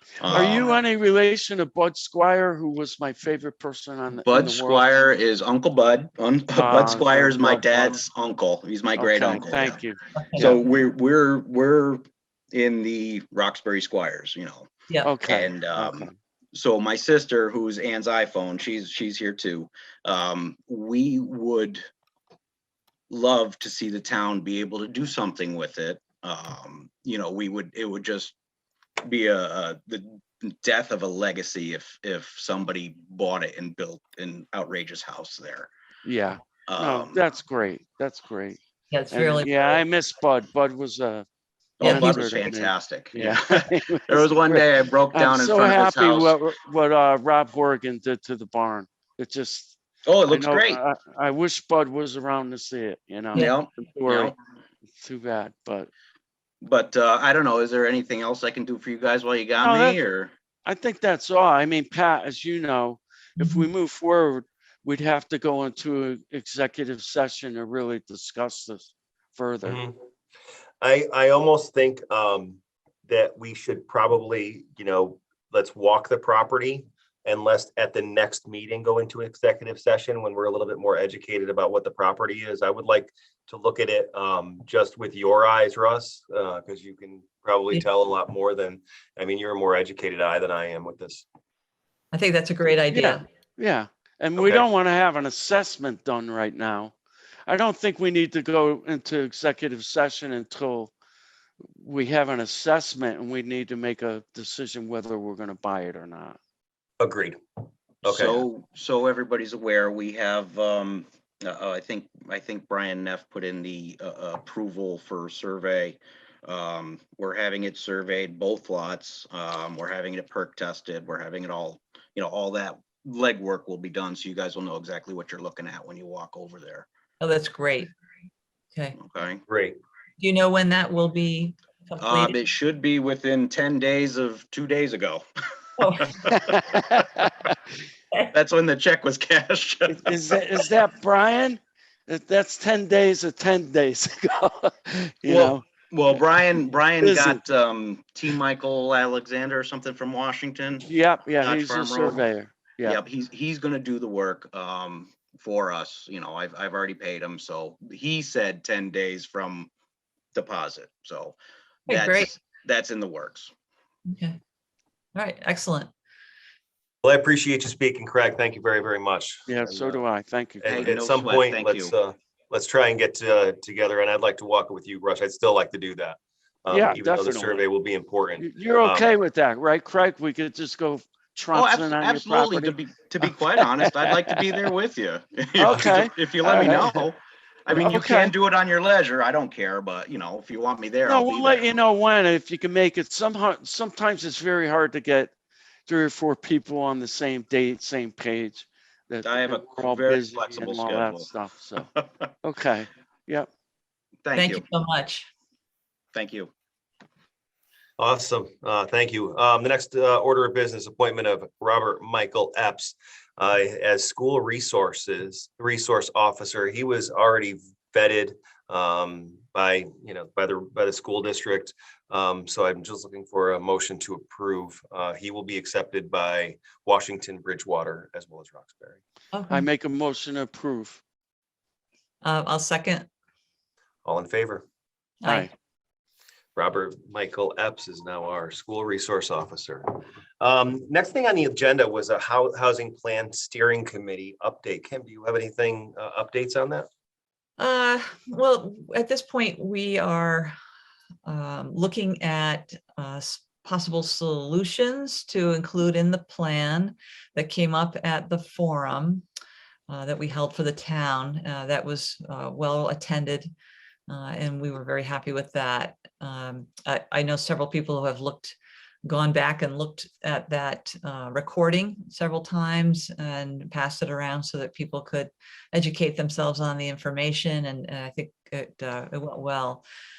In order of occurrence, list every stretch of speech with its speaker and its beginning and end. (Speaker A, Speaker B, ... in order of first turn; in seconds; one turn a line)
Speaker A: 0.2-0.8
Speaker B: 0.3-5.1
Speaker A: 4.2-9.8
Speaker B: 6.5-8.0
Speaker B: 8.9-10.5
Speaker C: 10.2-10.5
Speaker A: 10.4-14.7
Speaker B: 15.0-16.1
Speaker A: 15.2-21.8
Speaker A: 23.1-28.3
Speaker A: 29.0-35.7
Speaker B: 36.0-38.6
Speaker A: 36.7-37.2
Speaker C: 38.9-39.8
Speaker B: 39.1-41.3
Speaker A: 41.8-46.4
Speaker B: 41.8-54.3
Speaker C: 41.8-42.2
Speaker A: 50.0-50.8
Speaker A: 53.3-54.3
Speaker B: 55.0-55.9
Speaker A: 56.6-60.3
Speaker B: 59.6-60.0
Speaker B: 60.6-69.8
Speaker C: 63.4-63.7
Speaker D: 69.6-70.0
Speaker D: 70.8-91.2
Speaker C: 92.1-93.2
Speaker B: 92.9-96.9
Speaker D: 94.4-94.6
Speaker B: 97.5-100.9
Speaker B: 101.7-106.4
Speaker D: 107.0-107.4
Speaker D: 108.0-108.4
Speaker A: 108.0-126.9
Speaker C: 127.2-127.9
Speaker A: 129.0-129.4
Speaker D: 129.5-129.8
Speaker C: 130.2-132.3
Speaker A: 132.0-135.2
Speaker C: 135.8-136.4
Speaker A: 135.9-136.8
Speaker B: 136.7-137.3
Speaker A: 138.3-140.4
Speaker B: 139.9-145.6
Speaker A: 145.2-150.9
Speaker B: 147.0-147.4
Speaker B: 150.8-153.0
Speaker A: 151.4-152.2
Speaker A: 152.8-159.7
Speaker A: 160.3-163.5
Speaker C: 161.9-162.3
Speaker C: 164.1-164.4
Speaker C: 165.1-165.9
Speaker D: 167.0-170.0
Speaker B: 169.5-170.9
Speaker D: 170.6-179.1
Speaker A: 170.6-171.9
Speaker B: 176.7-177.6
Speaker B: 178.4-182.8
Speaker A: 181.5-191.7
Speaker B: 183.6-184.7
Speaker B: 185.6-187.0
Speaker B: 187.7-188.3
Speaker B: 191.1-195.3
Speaker B: 195.9-201.9
Speaker A: 199.2-201.3
Speaker A: 201.9-202.3
Speaker B: 202.4-203.5
Speaker A: 204.2-204.6
Speaker C: 204.3-205.3
Speaker A: 206.1-206.5
Speaker D: 208.0-229.0
Speaker C: 229.3-229.7
Speaker B: 229.5-231.0
Speaker C: 232.2-233.1
Speaker D: 234.0-234.6
Speaker C: 235.2-235.5
Speaker B: 235.2-235.5
Speaker D: 236.6-246.9
Speaker C: 247.6-250.5
Speaker C: 251.2-259.2
Speaker C: 259.9-263.5
Speaker C: 264.1-279.8